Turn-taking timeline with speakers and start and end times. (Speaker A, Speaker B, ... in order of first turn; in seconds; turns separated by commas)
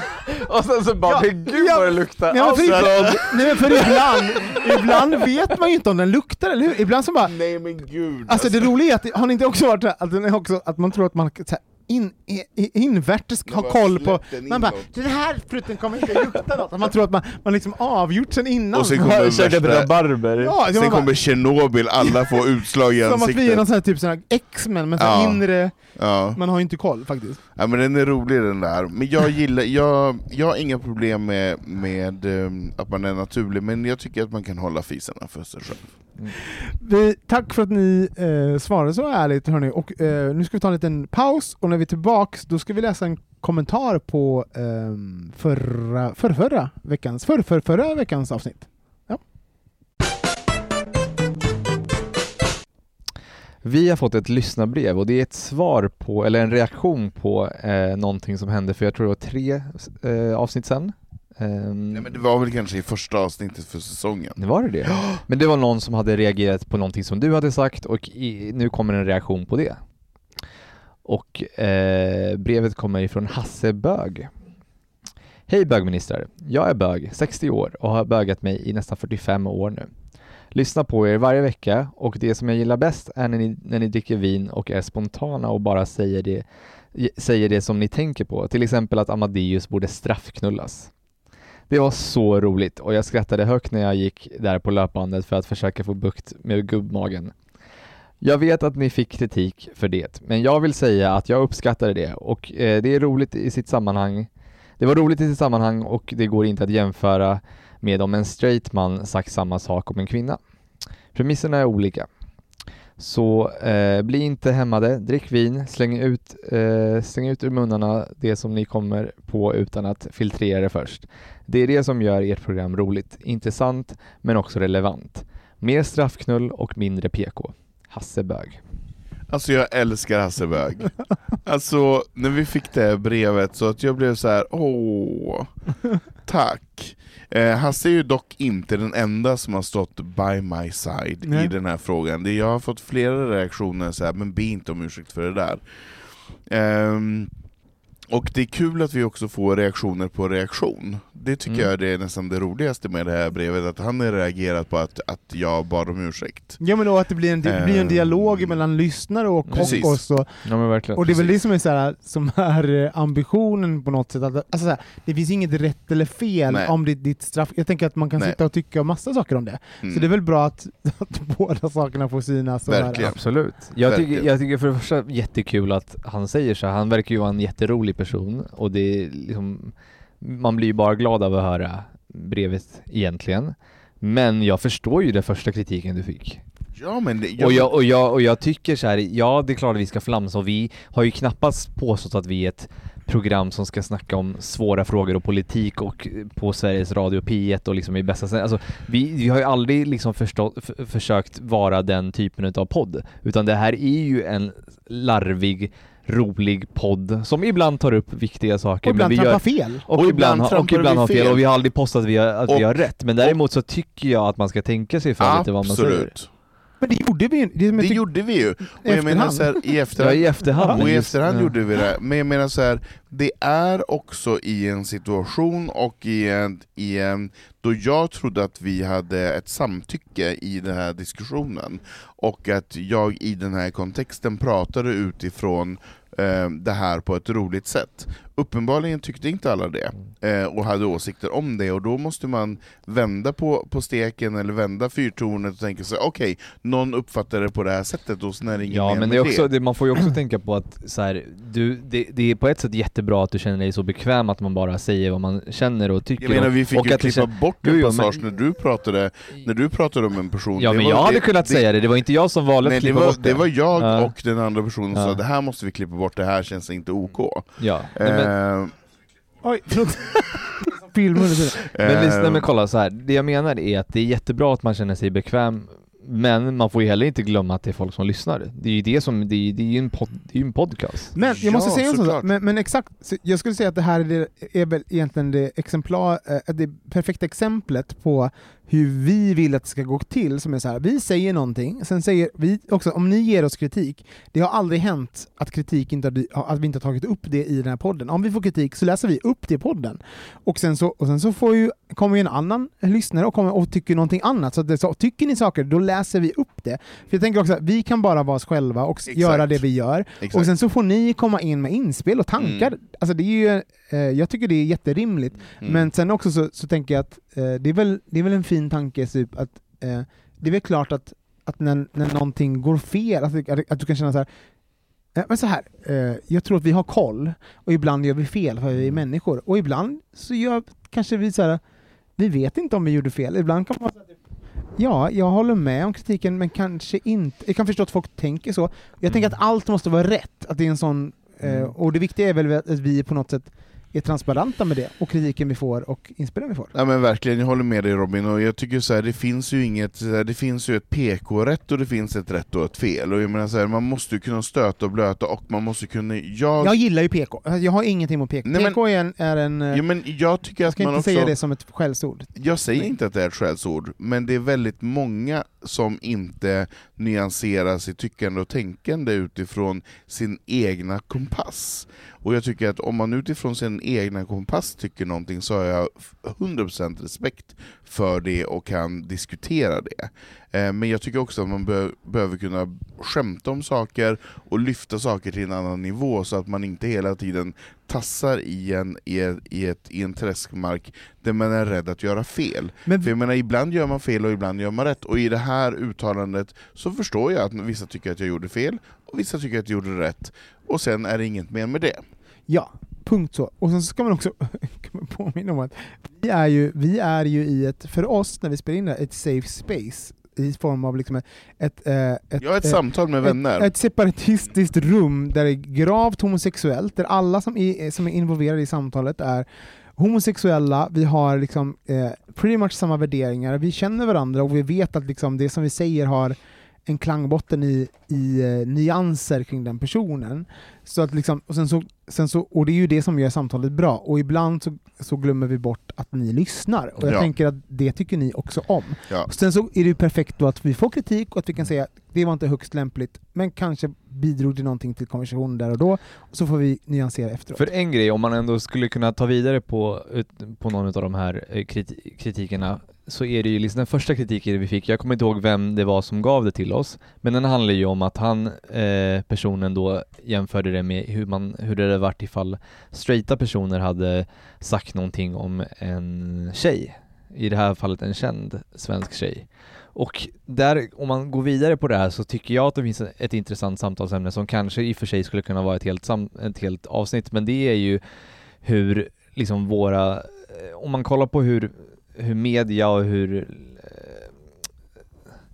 Speaker A: 0.3-4.5, Speaker B: 1.0-7.3, Speaker C: 2.4-3.9, Speaker C: 7.2-8.7, Speaker B: 8.3-19.0, Speaker C: 13.5-14.9, Speaker C: 18.7-19.9, Speaker A: 18.9-20.5, Speaker B: 20.4-21.2, Speaker C: 20.7-23.7, Speaker B: 23.0-25.8, Speaker C: 25.0-25.4, Speaker C: 25.9-26.4, Speaker B: 26.3-27.4, Speaker C: 27.5-35.9, Speaker B: 36.4-49.2, Speaker A: 53.6-62.2, Speaker C: 61.9-65.2, Speaker A: 64.4-69.8, Speaker A: 71.0-74.3, Speaker A: 75.5-79.9, Speaker A: 80.5-90.9, Speaker A: 91.7-97.3, Speaker A: 98.2-110.4, Speaker A: 111.1-112.1, Speaker A: 113.0-128.6, Speaker C: 129.3-130.9, Speaker C: 131.4-135.5, Speaker C: 136.2-145.6, Speaker C: 146.4-147.3, Speaker C: 148.1-156.6, Speaker B: 156.6-173.1, Speaker C: 157.4-158.6, Speaker A: 159.5-161.3, Speaker C: 159.5-160.0, Speaker C: 166.5-166.7, Speaker C: 169.8-170.1, Speaker C: 172.7-174.3, Speaker A: 172.9-186.4, Speaker C: 186.7-187.7, Speaker A: 187.4-216.1, Speaker B: 208.8-209.8, Speaker C: 209.9-211.4, Speaker C: 212.5-213.4, Speaker C: 215.2-216.3, Speaker B: 216.8-219.6, Speaker C: 217.7-249.5, Speaker A: 220.0-221.5, Speaker A: 248.7-258.2, Speaker C: 256.2-261.7, Speaker A: 260.6-264.1, Speaker C: 262.6-268.8, Speaker A: 264.9-265.2, Speaker A: 267.6-268.3, Speaker B: 269.4-271.6, Speaker C: 271.6-272.5, Speaker A: 271.8-281.1, Speaker B: 281.1-324.3, Speaker C: 281.2-282.3, Speaker C: 309.1-309.6, Speaker C: 310.2-310.5, Speaker C: 312.4-312.7, Speaker C: 315.6-315.9, Speaker B: 325.1-331.6, Speaker B: 332.2-334.1, Speaker B: 334.8-346.7, Speaker A: 341.4-341.7, Speaker C: 346.7-356.8, Speaker B: 356.6-359.8, Speaker C: 358.4-358.8, Speaker C: 359.7-361.4, Speaker B: 360.7-362.9, Speaker C: 362.4-402.0, Speaker B: 402.5-419.4, Speaker C: 412.4-413.7, Speaker B: 420.0-447.6, Speaker C: 437.0-437.3, Speaker A: 447.5-478.0, Speaker A: 478.6-484.3